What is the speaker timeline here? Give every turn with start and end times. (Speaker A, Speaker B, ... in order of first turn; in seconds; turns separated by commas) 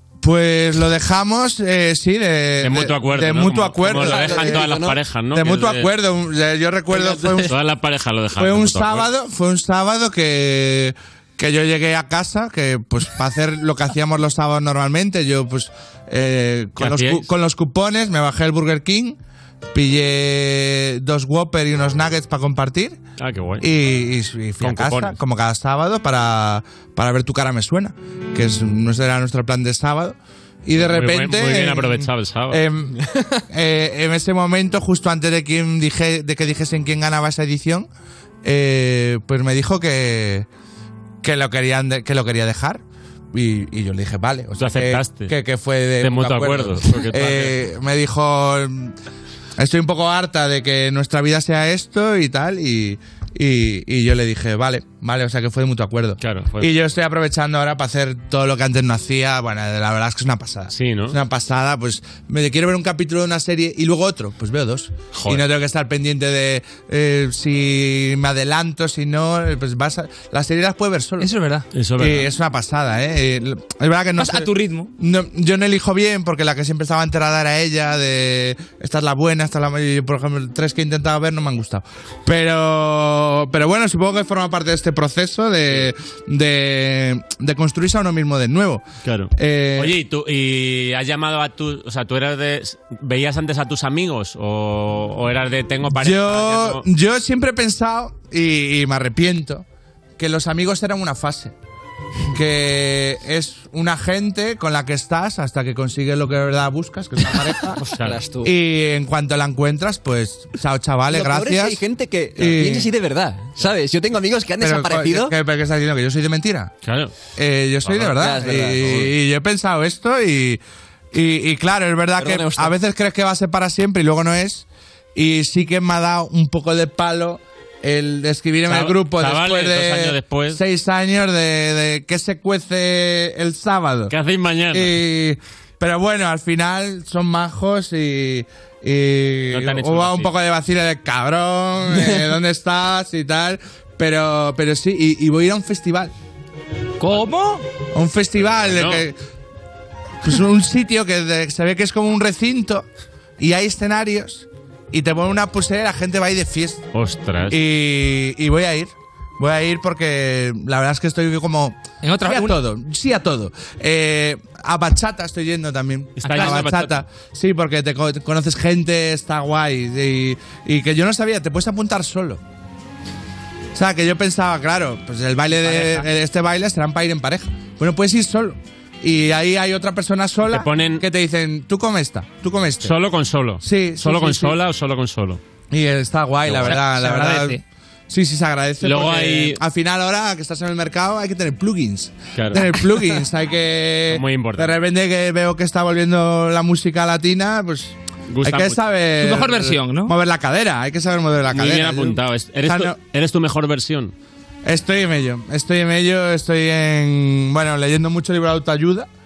Speaker A: 0.2-4.7, Speaker B: 2.6-5.9, Speaker C: 3.9-5.0, Speaker A: 5.3-7.5, Speaker B: 7.5-9.1, Speaker A: 8.3-19.2, Speaker B: 16.8-17.3, Speaker A: 19.7-23.0, Speaker B: 23.2-23.6, Speaker A: 23.6-37.9, Speaker B: 24.6-25.2, Speaker B: 30.8-32.6, Speaker A: 38.4-40.5, Speaker A: 41.2-48.9, Speaker B: 44.6-45.3, Speaker B: 46.0-47.6, Speaker A: 49.6-71.3, Speaker B: 56.2-56.7, Speaker B: 60.7-61.1, Speaker B: 65.1-65.4, Speaker D: 71.2-71.7, Speaker B: 71.7-72.3, Speaker A: 72.0-88.8, Speaker D: 74.2-74.9, Speaker B: 89.0-96.8, Speaker A: 89.3-89.9, Speaker A: 96.0-99.7, Speaker A: 100.2-101.5, Speaker A: 102.3-107.8, Speaker B: 107.8-108.2, Speaker C: 108.0-108.5, Speaker A: 108.4-111.8, Speaker C: 111.1-115.3, Speaker A: 112.3-112.9, Speaker A: 114.6-116.7, Speaker B: 116.8-117.1, Speaker A: 117.3-120.6, Speaker B: 117.8-118.2, Speaker C: 118.2-119.1, Speaker A: 121.1-134.1, Speaker C: 122.2-122.7, Speaker B: 128.7-130.6, Speaker B: 134.1-135.0, Speaker A: 134.7-146.1, Speaker B: 139.5-140.3, Speaker D: 147.0-147.6, Speaker A: 147.9-149.2, Speaker B: 148.6-149.0, Speaker A: 150.2-152.8, Speaker A: 153.4-156.8, Speaker B: 156.9-157.6, Speaker A: 157.5-172.4, Speaker D: 162.0-162.6, Speaker B: 166.2-167.0, Speaker D: 166.2-166.7, Speaker A: 173.7-182.9, Speaker D: 175.6-176.0, Speaker B: 180.5-181.0, Speaker B: 182.8-185.4, Speaker A: 183.6-184.6, Speaker A: 185.7-203.0, Speaker B: 186.4-186.9, Speaker D: 186.7-187.6, Speaker B: 188.8-189.6, Speaker B: 192.3-192.7, Speaker B: 194.1-194.7, Speaker B: 198.3-198.8, Speaker D: 199.2-200.1, Speaker B: 201.5-204.1, Speaker A: 204.6-209.1